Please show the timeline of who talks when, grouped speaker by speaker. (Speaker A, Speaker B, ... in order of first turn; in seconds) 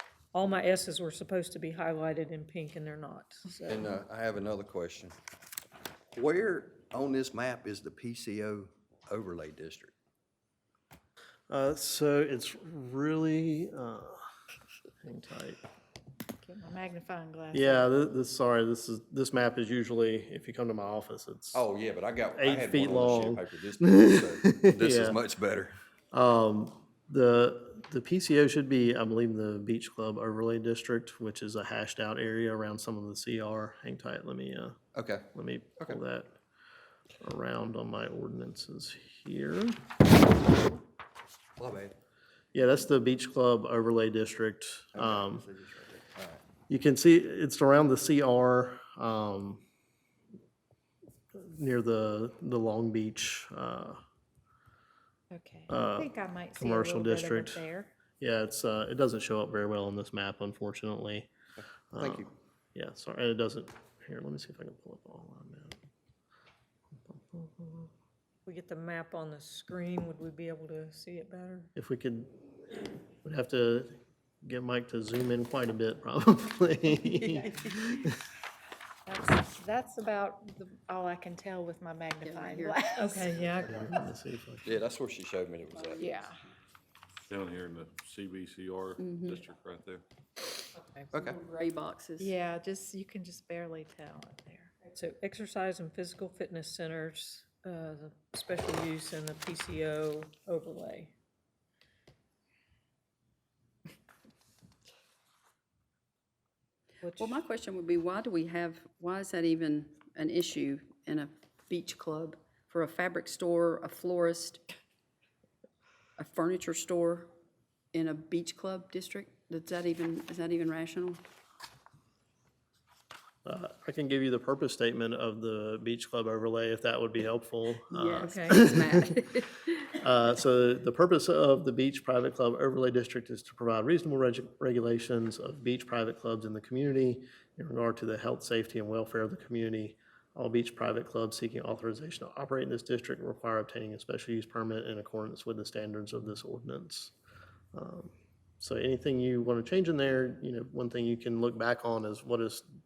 Speaker A: 0.3-4.0, 68.5-71.7, 83.0-83.9, 94.9-101.1, 107.0-107.4, 128.2-128.6
Speaker B: 3.7-5.2, 6.1-9.9, 21.5-25.8, 34.9-35.3, 41.6-42.0, 45.0-46.4, 61.6-62.3, 84.7-86.3, 91.1-91.4
Speaker C: 11.5-14.2, 15.0-15.6, 17.5-21.6, 22.4-25.2, 26.1-36.3, 37.2-39.8, 42.5-45.5, 46.7-49.6, 51.3-54.0, 55.7-57.6, 58.2-61.3, 61.9-65.8, 67.0-67.9, 71.8-72.3, 73.2-78.2, 83.6-84.8, 123.5-129.0, 129.9-147.1, 147.7-152.7
Speaker D: 16.4-17.9, 55.3-57.9, 79.1-83.8, 86.0-86.4, 92.2-94.8
Speaker E: 82.2-82.9, 89.0-89.4, 91.4-92.3, 107.1-114.6, 116.2-117.3, 117.9-121.2, 127.9-129.9
Speaker F: 87.3-90.0